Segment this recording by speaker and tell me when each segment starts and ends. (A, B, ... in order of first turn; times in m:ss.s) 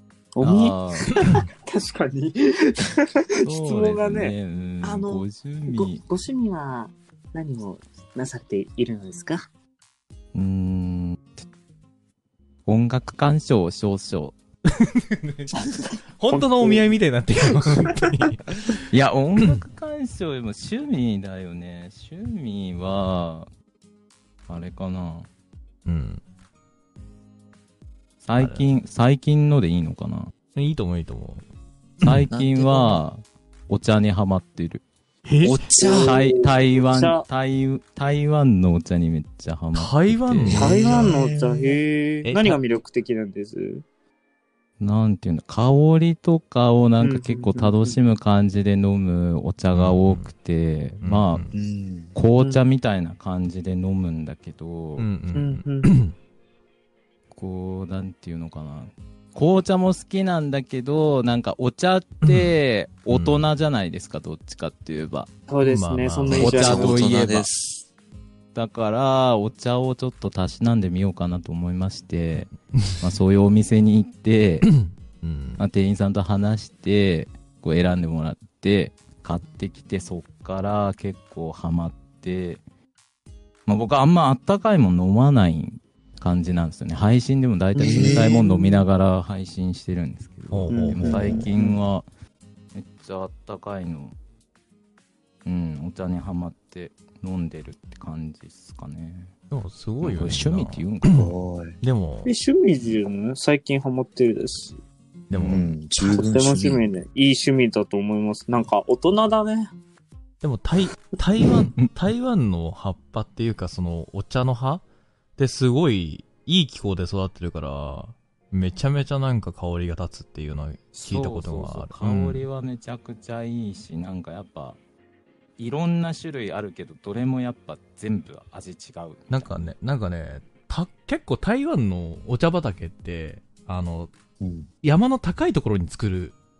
0:00.3-0:09.4 A
0:00.4-0:01.2 B
0:03.4-0:06.0 B
0:10.3-0:11.4 B
0:12.7-0:14.4 B
0:14.7-0:15.6 C
0:15.6-0:16.9 A
0:16.2-0:18.8 C
0:17.4-0:18.1 A
0:18.9-0:23.5 B
0:19.4-0:19.6 C
0:24.5-0:25.3 B
0:25.9-0:26.2 C
0:28.2-0:30.3 B
0:28.4-0:28.7 C
0:30.6-0:31.4 C
0:32.0-0:34.8 B
0:32.0-0:33.0 D
0:35.2-0:35.7 C
0:35.4-0:36.2 D
0:35.8-0:37.2 A
0:35.9-0:40.8 B
0:39.7-0:41.2 C
0:40.5-0:41.8 D
0:40.5-0:43.8 A
0:42.2-0:42.6 C
0:44.8-0:51.5 B
0:47.0-0:48.0 A
0:49.7-0:50.3 C
0:51.0-0:51.5 C
0:51.5-0:52.1 D
0:52.1-0:55.1 B
0:52.4-0:52.6 A
0:55.0-0:56.1 C
0:55.3-0:56.0 A
0:57.3-1:05.3 B
1:02.2-1:02.6 C
1:03.1-1:03.4 C
1:05.5-1:07.0 A
1:05.6-1:06.6 C
1:06.3-1:07.8 D
1:06.4-1:07.5 B
1:08.6-1:14.7 B
1:14.6-1:15.6 C
1:15.6-1:22.6 B
1:23.7-1:32.1 B
1:27.8-1:28.8 A
1:27.8-1:28.4 D
1:30.5-1:31.5 C
1:30.7-1:31.7 A
1:32.7-1:34.2 B
1:35.4-1:39.3 B
1:39.5-1:42.3 C
1:40.0-1:41.2 B
1:41.1-1:41.8 D
1:42.2-1:44.8 A
1:45.3-1:45.7 C
1:45.3-1:45.6 B
1:45.4-1:46.8 D
1:46.0-1:49.7 A
1:50.4-1:54.8 C
1:55.4-2:02.4 C
2:00.9-2:04.8 B
2:05.6-2:09.3 B
2:09.3-2:14.1 C
2:14.4-2:14.7 D
2:14.8-2:16.3 C